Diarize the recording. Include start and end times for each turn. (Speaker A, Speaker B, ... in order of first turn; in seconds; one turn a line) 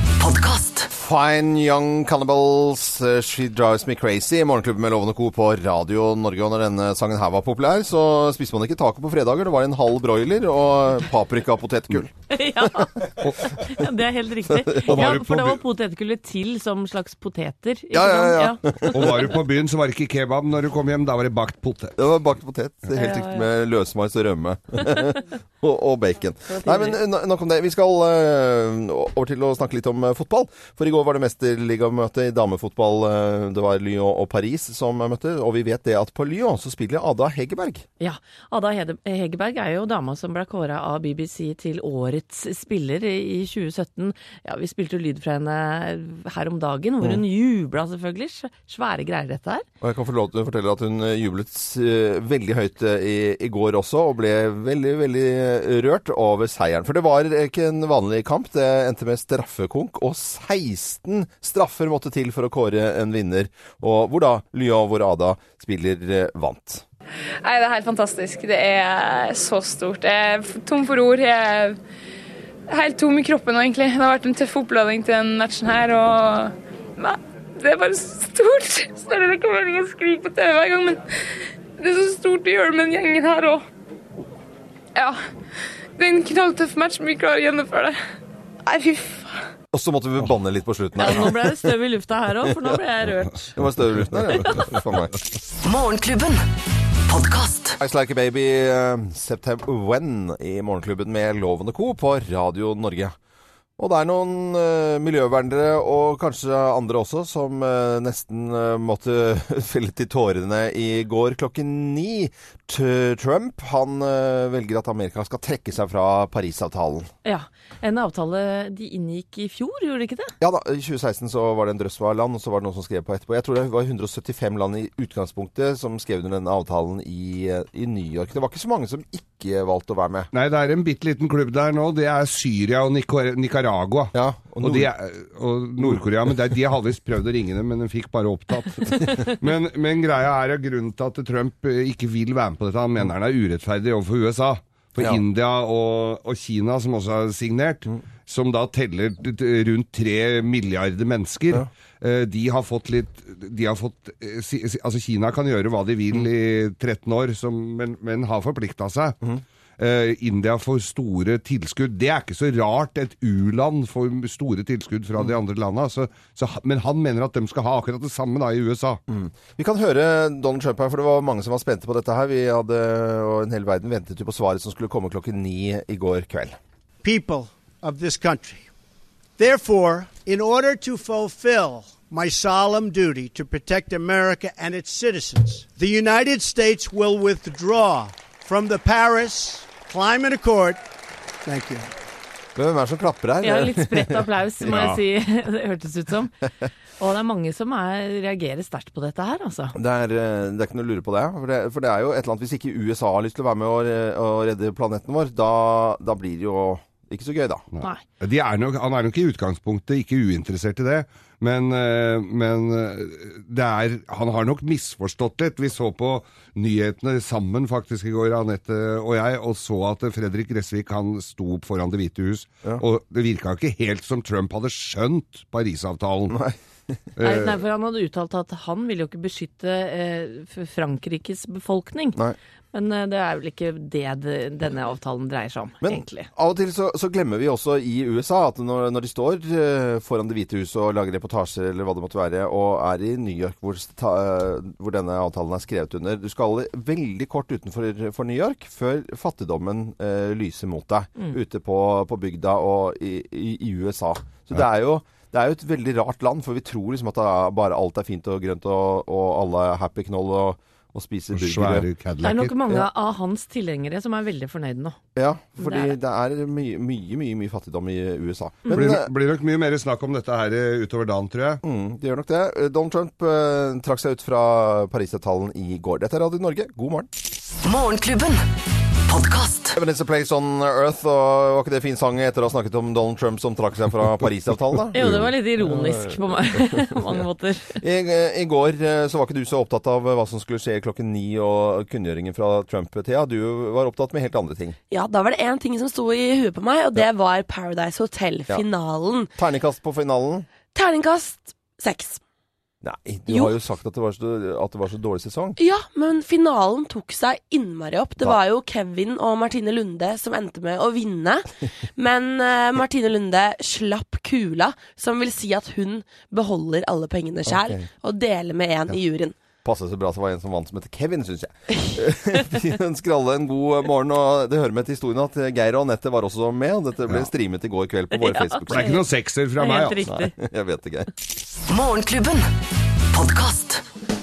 Speaker A: 0.2-0.9
Speaker B: 0.9-12.9
Speaker C: 12.3-19.3
Speaker D: 13.2-13.7
Speaker B: 14.5-15.2
Speaker D: 14.7-15.6
Speaker B: 17.9-19.2
Speaker D: 18.9-22.0
Speaker B: 22.0-37.9
Speaker C: 22.9-23.5
Speaker C: 26.5-27.0
Speaker C: 38.0-49.6
Speaker B: 49.8-66.8
Speaker E: 67.4-71.8
Speaker E: 72.7-81.0
Speaker E: 81.8-83.6
Speaker E: 84.9-85.2
Speaker E: 86.0-88.0
Speaker E: 88.6-89.5
Speaker B: 89.7-91.7
Speaker C: 91.0-93.6
Speaker B: 93.5-95.1
Speaker C: 94.3-94.7
Speaker A: 95.6-96.4
Speaker A: 97.1-97.8
Speaker B: 97.8-103.2
Speaker B: 103.8-117.1
Speaker C: 117.2-120.3
Speaker B: 120.4-130.3
Speaker D: 130.3-159.2
Speaker B: 134.1-134.9
Speaker D: 159.8-169.0
Speaker B: 169.1-176.6
Speaker F: 177.0-178.7
Speaker F: 179.4-190.8
Speaker F: 191.4-191.9
Speaker B: 192.6-195.0
Speaker C: 193.4-196.3
Speaker D: 194.7-195.0
Speaker C: 197.0-199.7
Speaker B: 199.7-207.6
Speaker D: 207.7-226.4
Speaker B: 226.3-226.5
Speaker D: 227.2-227.5
Speaker C: 227.2-232.2
Speaker C: 232.7-236.3
Speaker B: 235.8-261.9
Speaker D: 261.3-262.5
Speaker C: 262.2-265.0
Speaker B: 265.1-269.1
Speaker C: 265.6-265.9
Speaker D: 268.7-271.6
Speaker B: 271.6-277.1
Speaker A: 277.6-278.4
Speaker A: 279.1-279.8
Speaker B: 279.7-286.9
Speaker C: 284.9-287.8
Speaker D: 285.0-285.3
Speaker B: 287.8-294.8
Speaker G: 294.9-299.3
Speaker B: 299.4-300.5
Speaker G: 300.7-302.2
Speaker B: 302.8-305.6
Speaker G: 305.6-319.3
Speaker B: 317.4-317.9
Speaker B: 319.6-329.0
Speaker C: 328.1-329.0
Speaker D: 328.7-330.0
Speaker C: 329.6-330.3
Speaker B: 330.1-331.1
Speaker A: 331.7-332.5
Speaker A: 333.1-333.8